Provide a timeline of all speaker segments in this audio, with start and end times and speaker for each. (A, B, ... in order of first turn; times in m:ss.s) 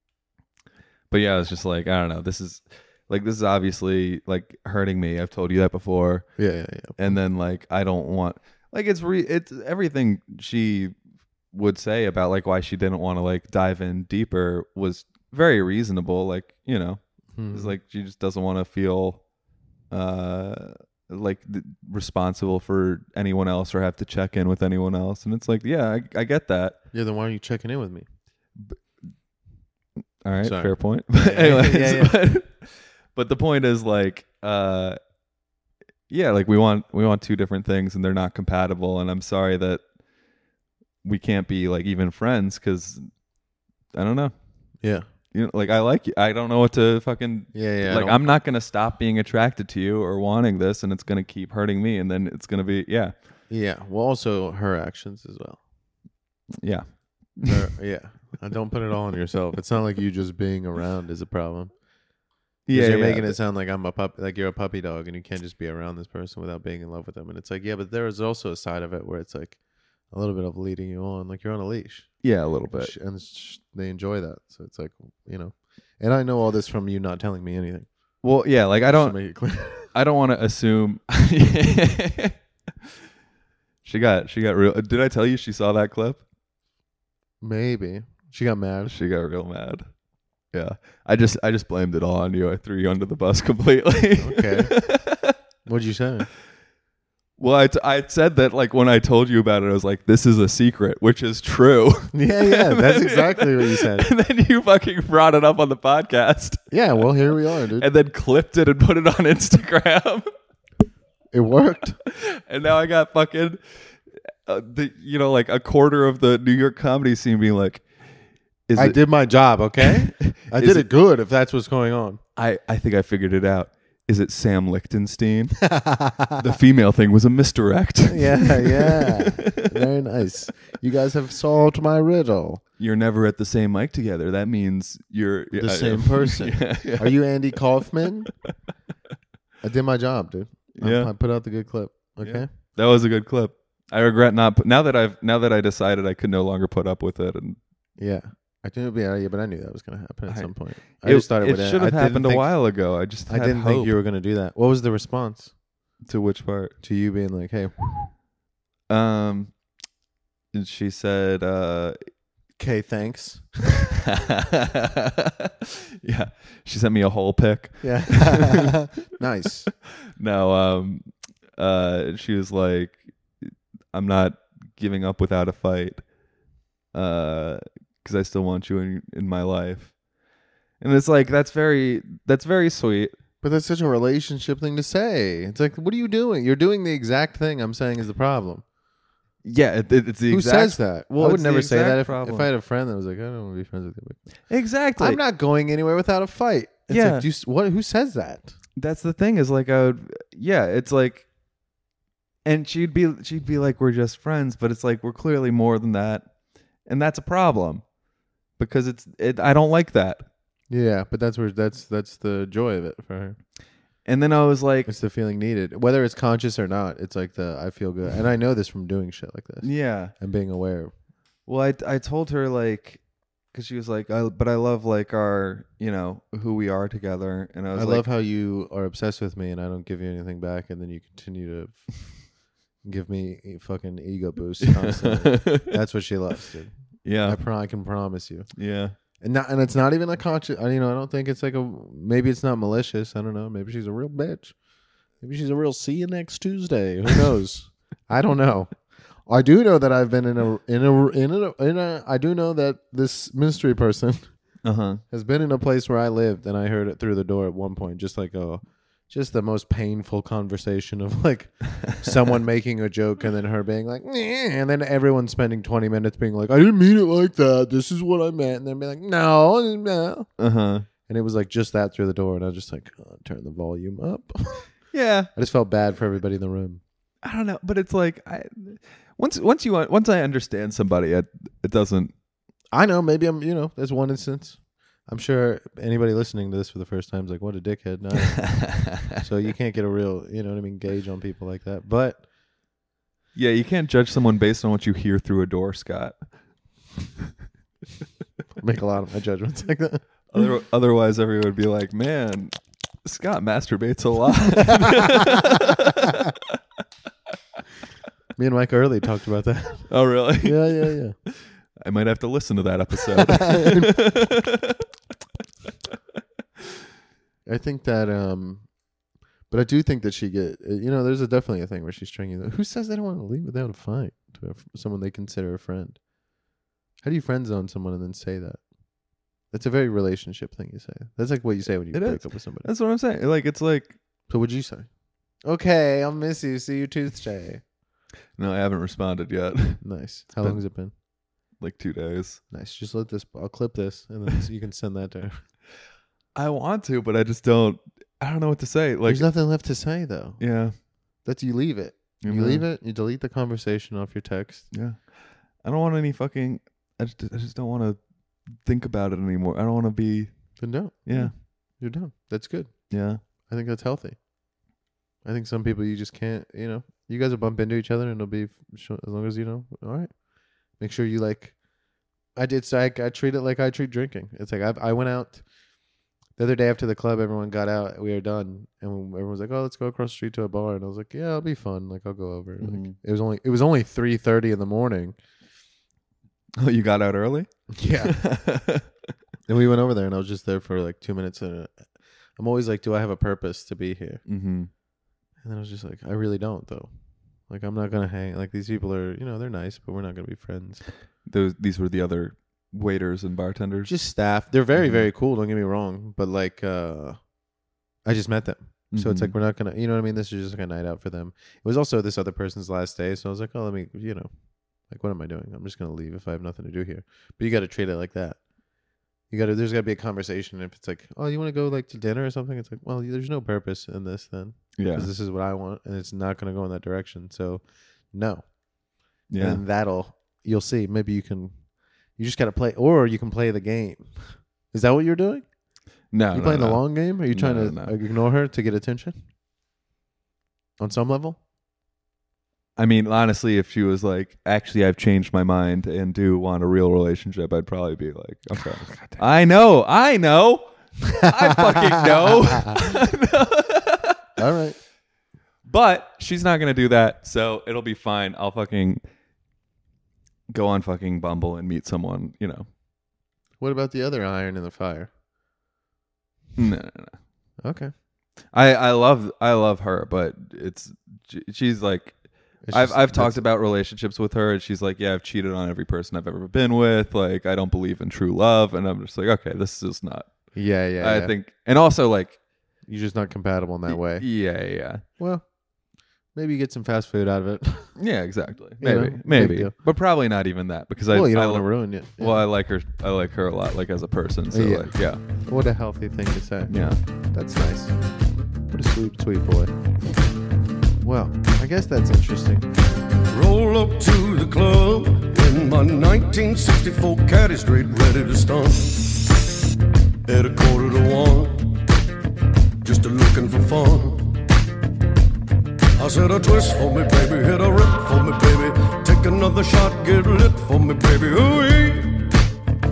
0:01.1-0:06.3 A
0:06.4-0:07.0 B
0:07.0-0:11.0 A
0:11.5-0:19.2 A
0:17.3-0:17.7 B
0:19.9-0:26.8 A
0:26.9-0:28.1 B
0:28.6-0:28.8 A
0:30.2-0:35.0 A
0:30.4-0:32.2 B
0:36.1-0:39.8 A
0:41.0-0:43.1 A
0:43.9-0:44.4 A
0:44.8-0:45.1 B
0:45.3-0:53.1 A
0:47.5-0:48.3 B
0:53.5-0:55.6 B
0:56.6-0:57.5 A
0:57.4-1:01.7 B
1:02.7-1:03.4 A
1:02.7-1:17.9 B
1:12.2-1:12.9 A
1:18.2-1:19.2 A
1:18.9-1:19.9 B
1:19.8-1:22.4 A
1:23.8-1:26.2 A
1:27.4-1:29.0 B
1:28.9-1:29.9 A
1:30.5-1:35.4 A
1:34.2-1:34.8 B
1:35.6-1:36.3 B
1:37.4-1:46.6 A
1:42.1-1:44.1 B
1:46.7-1:47.9 B
1:47.8-1:50.2 A
1:51.3-1:52.0 B
1:52.1-1:53.6 A
1:54.5-1:57.9 A
1:58.7-1:59.0 A
1:58.8-2:02.2 B
1:59.8-2:00.9 A
2:02.4-2:05.6 A
2:05.6-2:06.4 B
2:06.4-2:09.7 A
2:08.1-2:12.6 B
2:12.8-2:17.2 A
2:15.5-2:18.3 B
2:19.6-2:22.5 B
2:20.8-2:21.1 A
2:22.2-2:27.6 A
2:28.0-2:35.5 B
2:30.3-2:33.9 A
2:36.0-2:36.8 A
2:36.8-2:38.1 B
2:38.9-2:39.5 A
2:40.5-2:42.0 A
2:42.6-2:43.5 B
2:44.1-2:48.7 A
2:47.8-2:49.7 B
2:50.2-2:56.1 A
2:56.9-2:59.9 A
3:00.8-3:03.1 A
3:03.4-3:08.6 B
3:09.4-3:12.5 A
3:10.3-3:14.2 B
3:14.5-3:15.2 A
3:15.0-3:18.6 B
3:16.9-3:17.2 A
3:18.8-3:21.3 A
3:22.4-3:26.3 A
3:26.9-3:27.8 A
3:28.6-3:30.2 A
3:30.7-3:33.4 B
3:34.0-3:34.9 A
3:34.9-3:40.9 B
3:39.6-3:40.1 A
3:41.5-3:48.0 A
3:47.7-3:52.3 B
3:52.8-3:58.5 B
3:54.6-3:55.7 A
3:57.0-3:57.4 A
3:58.6-3:58.9 A
3:59.2-4:04.6 B
4:05.2-4:14.2 B
4:14.6-4:15.0 A
4:15.1-4:30.3 B
4:30.4-4:30.9 A
4:31.1-4:34.7 B
4:34.9-4:35.3 A
4:35.4-4:36.8 B
4:37.2-4:42.1 A
4:42.7-4:52.3 B
4:48.5-4:48.9 A
4:53.4-4:56.2 A
4:58.6-5:00.0 B
5:00.3-5:06.4 A
5:08.4-5:11.2 B
5:09.9-5:14.8 A
5:13.2-5:14.0 B
5:17.5-5:18.7 B
5:19.5-5:26.0 B
5:27.0-5:28.6 B
5:29.5-5:32.7 B
5:31.9-5:34.0 A
5:34.3-5:34.9 B
5:35.4-5:37.6 B
5:38.4-5:39.8 A
5:39.8-5:40.9 B
5:41.6-5:42.4 A
5:42.5-5:45.4 B
5:46.4-5:49.3 A
5:49.1-5:54.7 B
5:50.4-5:50.8 A
5:52.2-5:52.6 A
5:54.7-6:01.3 A
6:00.6-6:04.2 B
6:02.9-6:03.2 A
6:05.2-6:10.2 B
6:10.7-6:11.6 B
6:12.4-6:15.4 B
6:16.4-6:25.2 B
6:22.6-6:23.0 A
6:26.6-6:28.9 A
6:27.7-6:28.2 B
6:29.5-6:31.7 B
6:32.4-6:34.2 B
6:34.3-6:34.7 A
6:35.4-6:36.9 B
6:37.5-6:40.8 B
6:41.3-6:43.9 A
6:43.9-6:47.2 B
6:44.8-6:45.0 A
6:48.0-6:54.3 B
6:48.9-6:49.3 A
6:54.9-6:58.4 B
6:59.3-7:08.4 B
7:04.8-7:05.1 A
7:09.3-7:09.6 A
7:09.4-7:11.6 B
7:12.2-7:15.5 B
7:16.1-7:17.9 A
7:16.3-7:19.2 B
7:20.8-7:21.4 B
7:22.8-7:34.2 A
7:28.6-7:29.2 B
7:34.4-7:34.8 B
7:35.7-7:39.0 A
7:40.5-7:42.7 A
7:43.6-7:45.1 B
7:46.6-7:47.2 A
7:47.6-7:47.9 B
7:48.5-8:02.4 A
7:52.6-7:53.5 B
8:00.5-8:01.3 B
8:02.9-8:04.3 B
8:03.9-8:05.0 A
8:05.2-8:05.5 B
8:06.3-8:08.0 B
8:08.0-8:15.2 A
8:08.8-8:09.8 B
8:11.1-8:12.4 B
8:14.5-8:18.0 B
8:16.7-8:17.0 A
8:18.7-8:19.7 B
8:21.0-8:22.7 B
8:23.3-8:29.4 C
8:30.3-8:31.8 C
8:32.8-8:34.5 C
8:36.0-8:42.4 C